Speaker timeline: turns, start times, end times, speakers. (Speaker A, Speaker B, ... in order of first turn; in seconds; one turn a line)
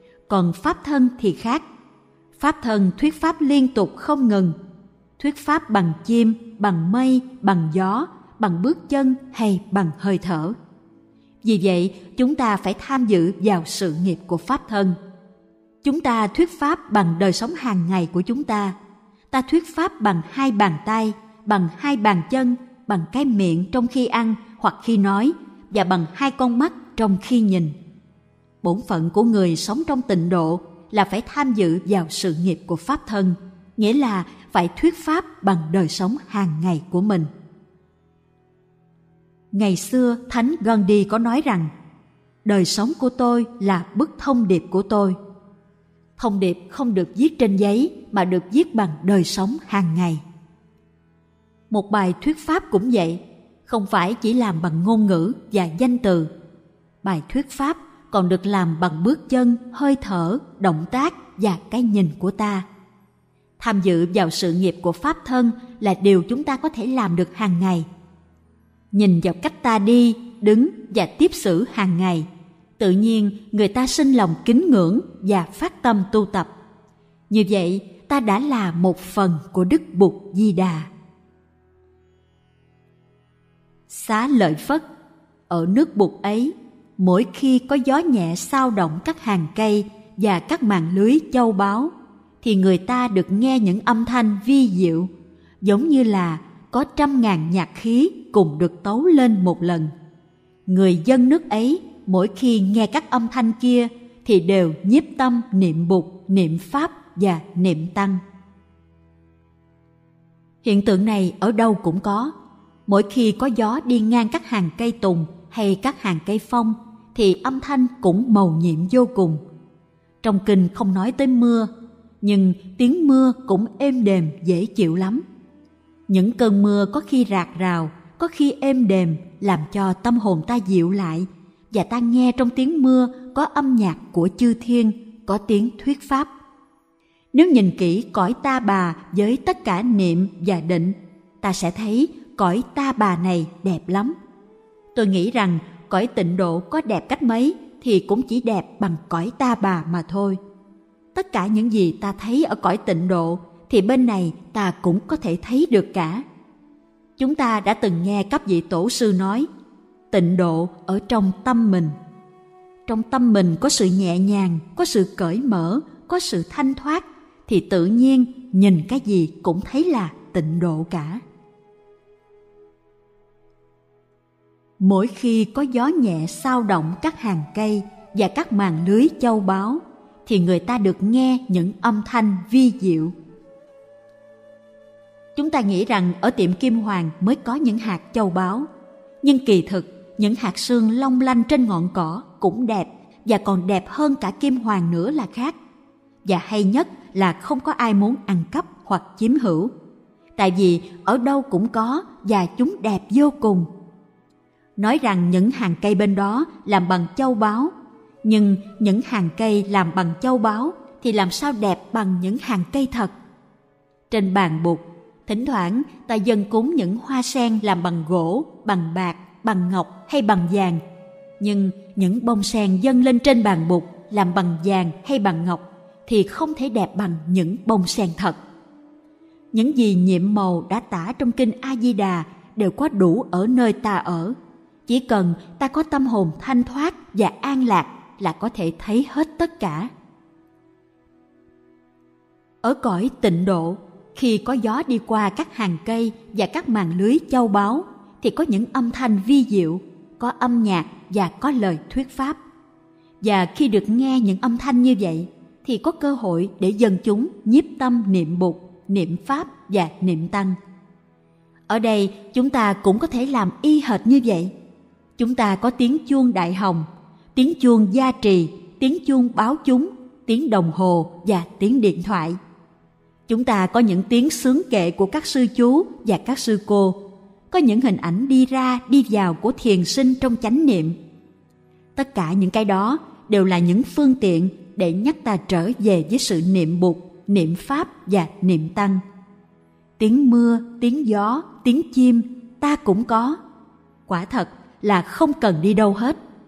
Speaker A: 0.3-1.6
Speaker A: 2.4-4.5
Speaker A: 5.2-10.6
Speaker A: 11.4-15.0
Speaker A: 15.8-18.8
Speaker A: 19.3-27.7
Speaker A: 28.6-37.3
Speaker A: 39.5-41.7
Speaker A: 42.4-45.2
Speaker A: 46.2-50.2
Speaker A: 51.7-56.3
Speaker A: 57.0-62.6
Speaker A: 63.6-67.9
Speaker A: 68.9-72.3
Speaker A: 72.8-76.5
Speaker A: 77.3-80.9
Speaker A: 83.9-84.8
Speaker A: 85.5-95.1
Speaker A: 95.6-99.9
Speaker A: 100.7-108.2
Speaker A: 110.6-112.3
Speaker A: 112.9-119.4
Speaker A: 120.2-121.7
Speaker A: 122.2-125.2
Speaker A: 126.1-136.3
Speaker A: 137.3-144.2
Speaker A: 144.9-150.4
Speaker A: 151.1-156.2
Speaker A: 157.2-159.5
Speaker A: 160.1-161.9
Speaker A: 162.9-171.2
Speaker A: 174.8-183.1
Speaker A: 185.3-188.7
Speaker A: 189.2-195.5
Speaker A: 196.2-199.7
Speaker A: 200.4-203.7
Speaker A: 204.8-207.7
Speaker A: 208.2-213.1
Speaker A: 214.1-220.8
Speaker A: 221.4-228.4
Speaker A: 229.5-234.3
Speaker A: 234.9-239.9
Speaker A: 242.6-252.4
Speaker A: 253.2-260.6
Speaker A: 261.7-264.5
Speaker A: 265.2-272.4
Speaker A: 273.3-277.0
Speaker A: 277.5-280.9
Speaker A: 281.9-289.0
Speaker A: 290.0-293.4
Speaker A: 294.1-296.2